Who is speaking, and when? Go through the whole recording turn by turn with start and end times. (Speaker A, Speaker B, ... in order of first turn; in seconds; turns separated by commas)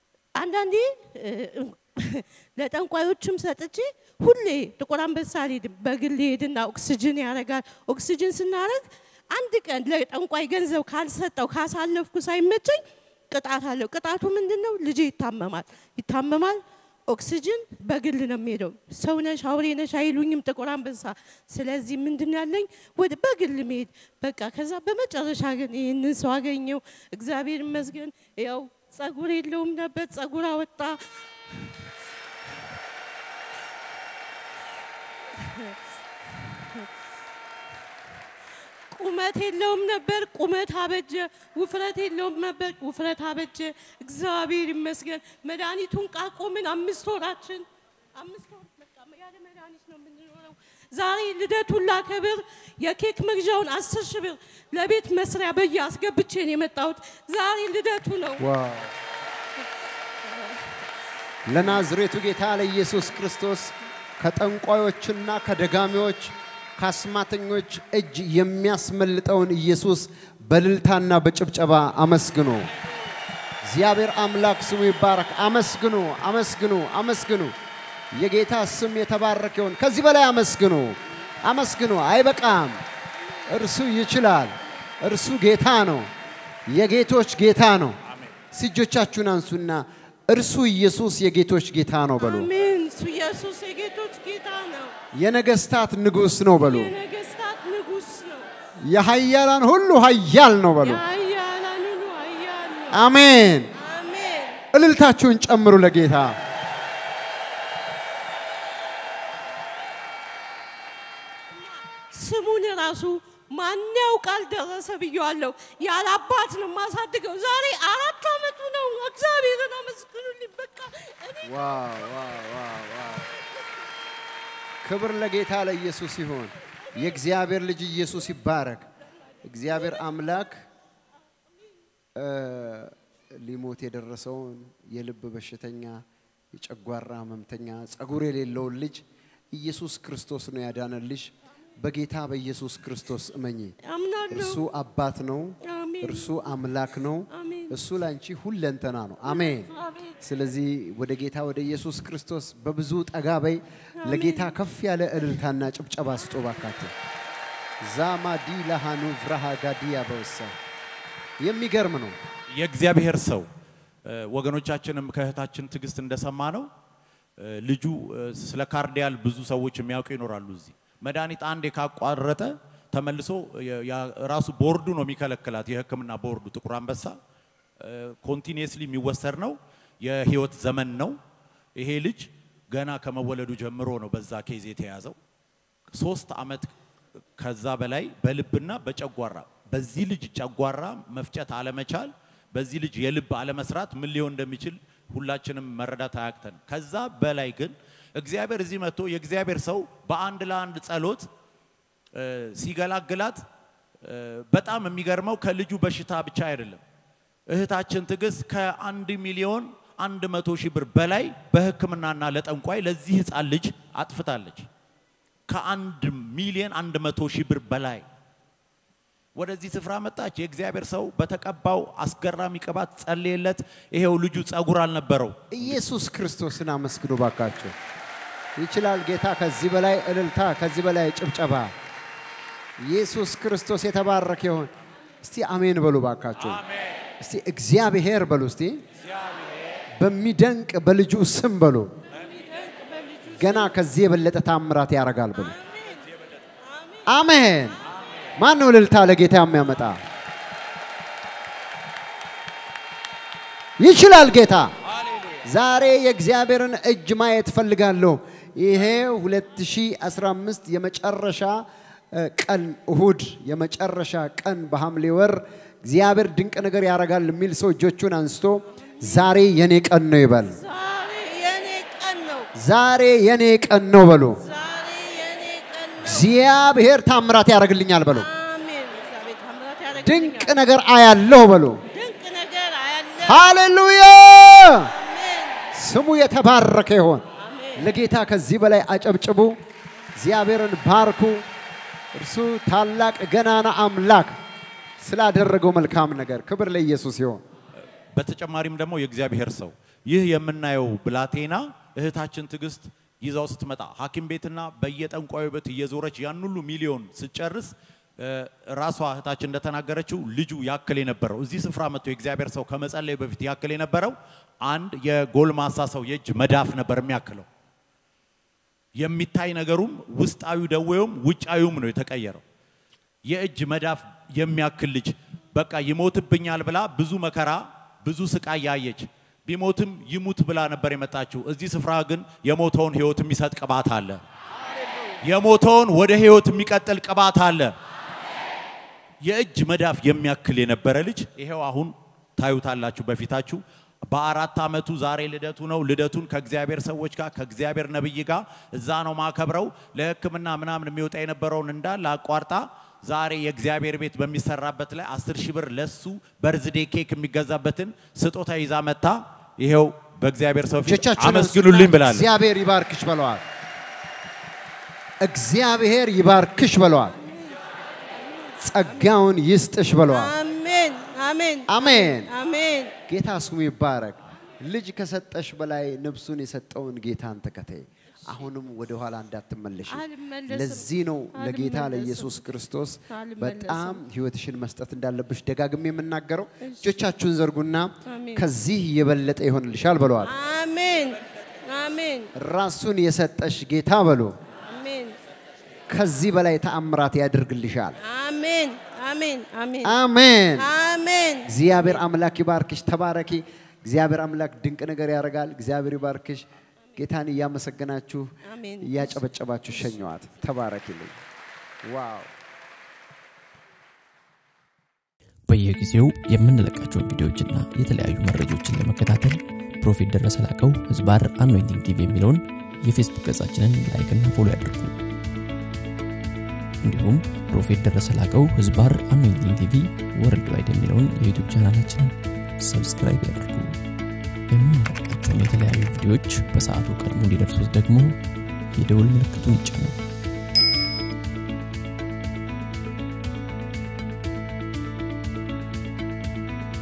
Speaker A: 0.3-31.7, Speaker A: 35.3-35.8, Speaker A: 36.5-36.9, Speaker A: 38.9-58.5, Speaker B: 58.4-58.9, Speaker A: 60.2-60.7, Speaker B: 61.5-72.7, Speaker B: 73.6-77.5, Speaker B: 78.1-82.8, Speaker B: 83.5-86.1, Speaker B: 86.7-88.0, Speaker B: 88.5-92.5, Speaker A: 92.2-94.9, Speaker B: 95.1-96.9, Speaker A: 96.6-98.5, Speaker B: 98.8-101.0, Speaker A: 100.8-103.0, Speaker B: 102.9-103.7, Speaker A: 103.7-104.6, Speaker B: 104.7-106.4, Speaker A: 111.5-122.3, Speaker B: 121.4-123.3, Speaker B: 124.8-128.9, Speaker B: 129.4-130.7, Speaker B: 132.2-143.8, Speaker A: 143.8-144.6, Speaker B: 144.3-156.9, Speaker A: 145.6-146.4, Speaker A: 147.3-147.8, Speaker A: 149.2-150.2, Speaker A: 154.0-154.6, Speaker B: 157.8-160.5, Speaker B: 161.4-162.2, Speaker C: 162.6-163.4, Speaker C: 164.1-166.7, Speaker C: 167.4-177.2, Speaker C: 177.8-181.2, Speaker C: 181.8-185.2, Speaker C: 185.9-186.7, Speaker C: 187.4-201.3, Speaker C: 202.1-203.4, Speaker C: 204.0-206.8, Speaker C: 207.5-214.7, Speaker C: 215.5-218.0, Speaker C: 219.3-225.9, Speaker B: 225.5-227.7, Speaker B: 228.6-231.7, Speaker B: 232.8-234.7, Speaker B: 235.2-236.6, Speaker B: 237.2-238.8, Speaker B: 240.0-241.9, Speaker A: 242.2-243.7, Speaker B: 243.3-245.6, Speaker A: 245.3-246.1, Speaker A: 246.6-247.1, Speaker B: 247.1-247.8, Speaker B: 248.4-250.0, Speaker B: 253.8-254.7, Speaker B: 255.4-270.6, Speaker A: 268.8-269.3, Speaker A: 270.5-272.5, Speaker B: 272.6-274.4, Speaker A: 274.4-276.3, Speaker B: 276.0-278.3, Speaker A: 278.1-280.6, Speaker B: 280.0-281.8, Speaker A: 281.9-283.4, Speaker B: 283.2-284.9, Speaker A: 284.9-285.6, Speaker B: 285.7-287.2, Speaker A: 287.4-287.9, Speaker B: 287.7-289.6, Speaker B: 290.2-291.4, Speaker B: 292.1-294.3, Speaker B: 295.0-297.4, Speaker C: 298.1-317.4, Speaker C: 319.0-322.4, Speaker C: 323.3-334.2, Speaker C: 335.2-337.7, Speaker C: 339.2-362.3, Speaker B: 360.8-363.4, Speaker B: 365.2-367.2, Speaker B: 368.6-370.4, Speaker A: 370.1-372.9, Speaker B: 371.7-372.3, Speaker B: 373.1-390.3, Speaker A: 379.9-382.4, Speaker A: 383.1-384.0, Speaker A: 386.6-386.9, Speaker A: 388.1-388.5, Speaker A: 390.2-392.3, Speaker B: 392.3-394.4, Speaker A: 394.7-395.2, Speaker B: 395.9-398.0, Speaker A: 398.0-400.0, Speaker B: 399.8-400.7, Speaker A: 400.6-402.0, Speaker B: 401.4-406.4, Speaker B: 406.9-408.3, Speaker A: 408.4-409.2, Speaker B: 408.8-411.1, Speaker B: 411.8-412.3, Speaker D: 415.5-425.0, Speaker D: 426.8-433.8, Speaker D: 434.5-438.2, Speaker D: 438.7-439.9